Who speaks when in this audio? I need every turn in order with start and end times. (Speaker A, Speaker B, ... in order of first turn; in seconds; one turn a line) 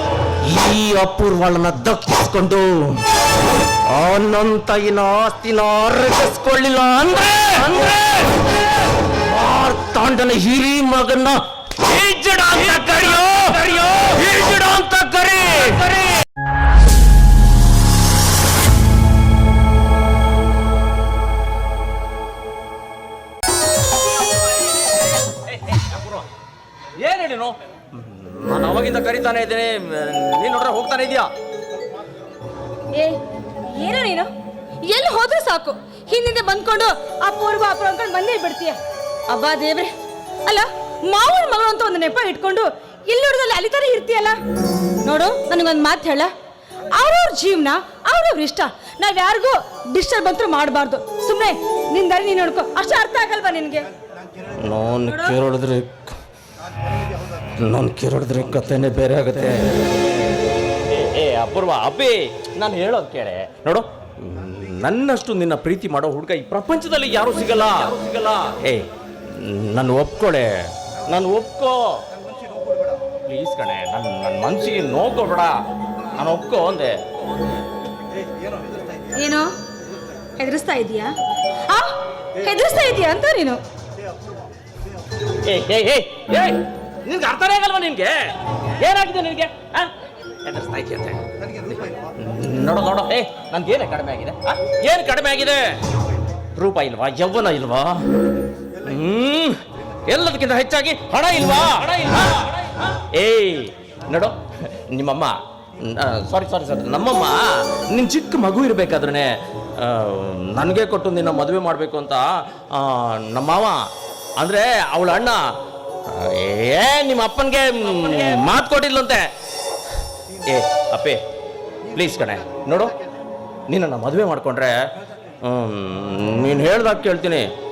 Speaker A: 0.5-2.7
Speaker A: 3.9-8.3
Speaker A: 9.3-15.9
Speaker B: 27.1-27.5
Speaker A: 27.1-27.4
Speaker A: 28.0-31.0
Speaker B: 28.9-29.7
Speaker B: 30.3-31.3
Speaker C: 32.9-34.3
Speaker C: 34.9-39.9
Speaker C: 40.5-44.4
Speaker C: 45.0-46.3
Speaker C: 46.9-53.9
Speaker A: 54.7-56.1
Speaker C: 55.0-55.4
Speaker A: 57.6-59.6
Speaker B: 60.9-68.8
Speaker A: 69.6-70.5
Speaker B: 70.0-70.4
Speaker B: 71.1-71.8
Speaker B: 73.3-75.5
Speaker B: 76.2-76.9
Speaker C: 79.2-79.5
Speaker C: 80.4-81.1
Speaker C: 81.7-83.6
Speaker B: 85.5-89.8
Speaker B: 90.5-91.2
Speaker B: 92.2-95.6
Speaker A: 96.6-98.0
Speaker B: 96.6-97.8
Speaker B: 98.8-99.5
Speaker B: 100.1-102.5
Speaker B: 103.2-104.3
Speaker A: 103.2-103.7
Speaker B: 104.9-105.2
Speaker A: 105.0-105.3
Speaker A: 105.9-109.3
Speaker B: 106.3-107.3
Speaker B: 107.9-109.2
Speaker A: 109.9-112.2
Speaker B: 110.6-112.2
Speaker A: 112.9-113.7
Speaker B: 113.3-113.7
Speaker B: 114.4-115.4
Speaker B: 116.2-119.3
Speaker B: 120.5-121.2
Speaker B: 121.9-122.9
Speaker B: 123.7-124.8
Speaker B: 125.4-127.5